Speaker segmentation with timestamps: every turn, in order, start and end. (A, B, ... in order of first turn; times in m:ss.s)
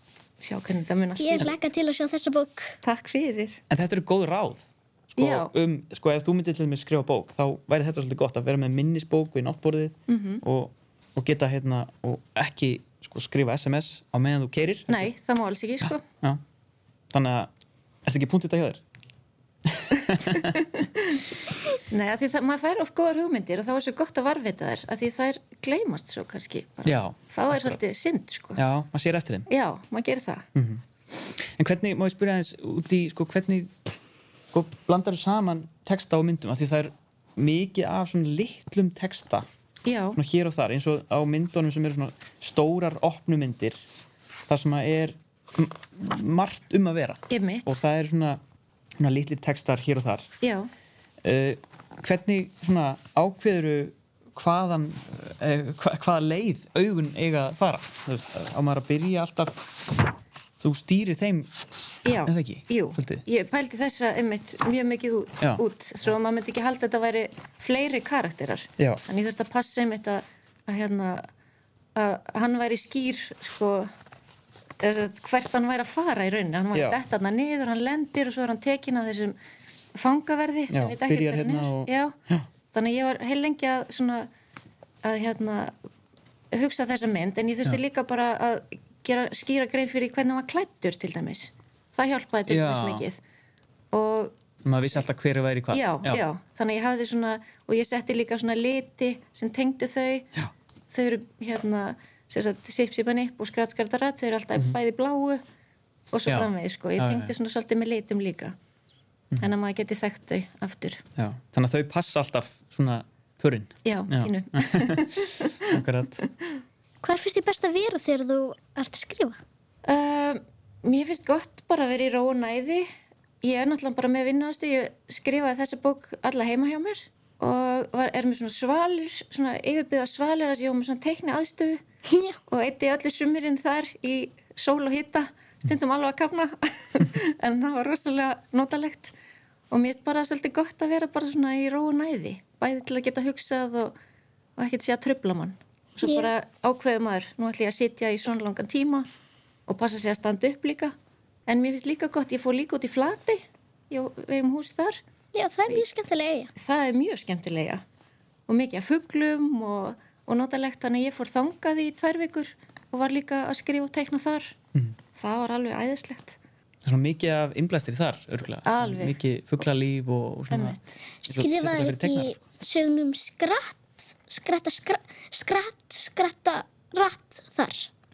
0:00.4-0:01.6 A
0:01.2-0:02.8 B
0:02.8-0:03.6 A
0:03.7-0:15.1 C
0:05.2-0:05.5 A
0:10.1-0:10.4 A
0:14.9-0:16.0 A
0:16.0-0:16.4 C
0:17.1-0:17.5 C
0:18.0-0:18.8 C
0:19.7-0:20.5 C
0:21.9-0:28.6 A
0:26.8-0:27.8 C
0:28.5-0:29.5 C
0:29.5-0:30.4 A
0:30.5-0:33.7 C
0:34.5-0:39.5 C
0:39.8-0:40.2 A
0:40.1-0:43.8 C
0:44.5-0:48.4 C
0:47.3-0:47.6 A
0:49.0-0:50.3 C
0:50.4-0:50.7 A
0:51.2-0:59.8 C
1:00.6-1:01.5 C
1:02.0-1:11.3 A
1:02.2-1:03.2 C
1:11.9-1:13.9 A
1:14.8-1:19.4 A
1:19.9-1:22.1 A
1:20.7-1:22.4 C
1:22.7-1:24.3 A
1:25.0-1:25.8 A
1:26.5-1:33.2 A
1:32.4-1:33.0 C
1:33.9-1:34.3 A
1:34.6-1:36.2 C
1:35.7-1:40.3 A
1:40.9-1:45.4 A
1:46.1-1:48.5 A
1:46.3-1:47.3 C
1:49.4-1:51.0 A
1:51.2-1:55.0 C
1:53.8-1:55.6 A
1:55.7-1:56.2 C
1:57.0-1:59.4 B
1:59.8-2:02.9 A
2:03.4-2:11.8 A
2:12.1-2:12.4 B
2:12.5-2:19.1 A
2:19.7-2:23.9 A
2:24.6-2:29.1 A
2:26.0-2:26.3 B
2:29.7-2:30.9 A
2:31.5-2:35.0 A
2:35.3-2:36.5 B
2:36.6-2:37.8 A
2:38.5-2:44.5 A
2:45.1-2:46.4 A
2:46.8-2:52.3 C
2:48.6-2:49.2 A
2:50.5-2:51.0 A
2:51.2-2:57.9 B